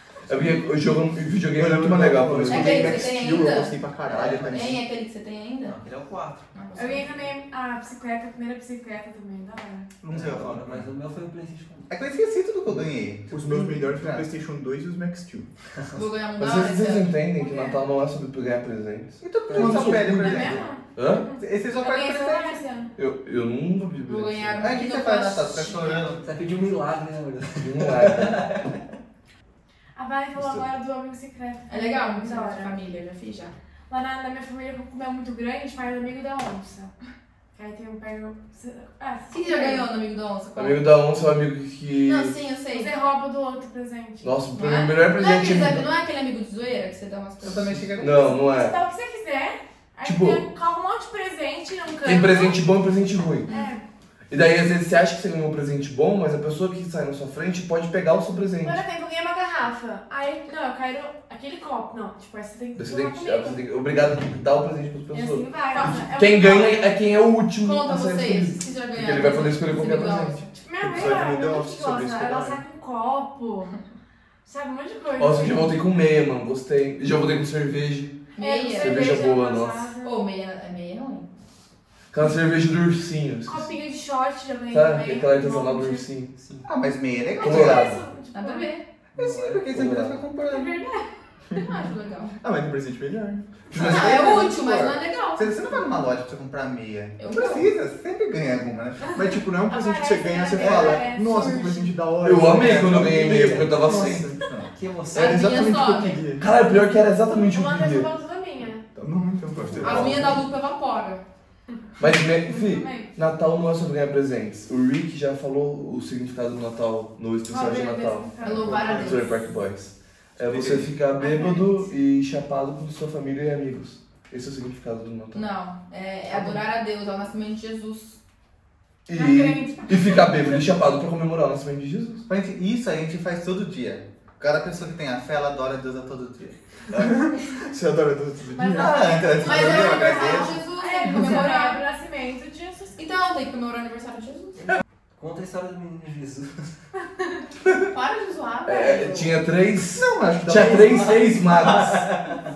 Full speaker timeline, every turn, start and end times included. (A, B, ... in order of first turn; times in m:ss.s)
0:00.3-0:03.0 A
0:01.5-0:04.8 B
0:02.4-0:03.8 C
0:04.0-0:04.8 D
0:04.5-0:05.8 C
0:05.6-0:06.5 D
0:06.5-0:07.3 C
0:06.8-0:09.9 E
0:10.0-0:10.6 B
0:10.0-0:10.8 F
0:10.1-0:11.9 D
0:11.9-0:14.3 F
0:13.3-0:15.5 B
0:16.0-0:17.2 C
0:16.4-0:20.4 A
0:17.4-0:17.8 E
0:19.2-0:20.7 F
0:19.5-0:20.0 D
0:19.6-0:20.2 B
0:20.1-0:22.9 E
0:21.0-0:21.2 A
0:21.4-0:22.6 F
0:23.0-0:24.6 A
0:24.1-0:26.1 C
0:24.6-0:26.2 F
0:25.9-0:28.8 D
0:27.6-0:28.5 A
0:30.0-0:32.8 E
0:30.4-0:30.6 A
0:31.7-0:33.5 C
0:33.9-0:36.9 E
0:37.5-0:39.9 E
0:39.3-0:40.8 C
0:40.6-0:42.4 A
0:42.0-0:42.9 C
0:42.7-0:44.3 E
0:44.2-0:45.9 A
0:44.6-0:47.9 C
0:47.4-0:48.3 F
0:48.0-0:48.8 A
0:48.2-0:52.6 E
0:50.0-0:50.4 A
0:52.0-0:53.5 A
0:53.4-0:53.8 E
0:53.5-0:53.7 C
0:54.3-0:58.8 A
0:58.6-1:03.6 E
1:02.8-1:10.4 A
1:05.1-1:07.0 E
1:05.7-1:06.0 C
1:07.6-1:10.6 C
1:10.6-1:13.8 E
1:10.8-1:12.6 B
1:14.4-1:15.8 E
1:15.2-1:18.2 A
1:18.4-1:19.2 C
1:18.4-1:20.2 E
1:18.8-1:19.8 A
1:20.0-1:21.3 C
1:22.1-1:23.7 A
1:23.5-1:26.1 E
1:24.7-1:26.4 A
1:26.4-1:26.7 D
1:26.6-1:28.0 F
1:27.4-1:28.8 E
1:27.4-1:28.0 A
1:28.3-1:28.8 C
1:29.2-1:30.8 F
1:29.2-1:29.7 D
1:29.7-1:30.2 A
1:30.4-1:31.7 E
1:31.6-1:32.3 C
1:32.4-1:33.9 B
1:33.7-1:39.2 F
1:33.8-1:35.5 C
1:37.2-1:37.7 C
1:39.1-1:44.4 B
1:39.6-1:41.9 E
1:40.6-1:41.0 F
1:41.3-1:41.6 C
1:42.2-1:44.3 A
1:42.6-1:43.4 F
1:44.1-1:44.7 F
1:44.8-1:45.8 D
1:45.1-1:46.5 B
1:45.1-1:46.2 C
1:46.4-1:48.1 A
1:47.3-1:48.8 E
1:49.0-1:50.4 B
1:49.5-1:50.1 F
1:49.8-1:51.2 C
1:49.8-1:50.3 A
1:52.0-1:58.3 A
1:52.4-1:53.1 E
1:57.5-1:59.2 E
1:58.4-1:59.4 C
1:58.5-1:59.1 B
1:58.9-2:05.4 A
2:00.4-2:00.9 B
2:01.2-2:01.9 E
2:05.3-2:08.2 C
2:09.1-2:12.2 A
2:09.1-2:10.6 E
2:12.3-2:17.1 F
2:17.0-2:19.5 B
2:18.5-2:23.0 E
2:18.7-2:20.6 F
2:19.4-2:21.8 C
2:23.0-2:24.7 C
2:25.2-2:26.7 D
2:27.9-2:29.4 C
2:28.7-2:32.1 A
2:29.9-2:31.3 B
2:30.8-2:32.4 D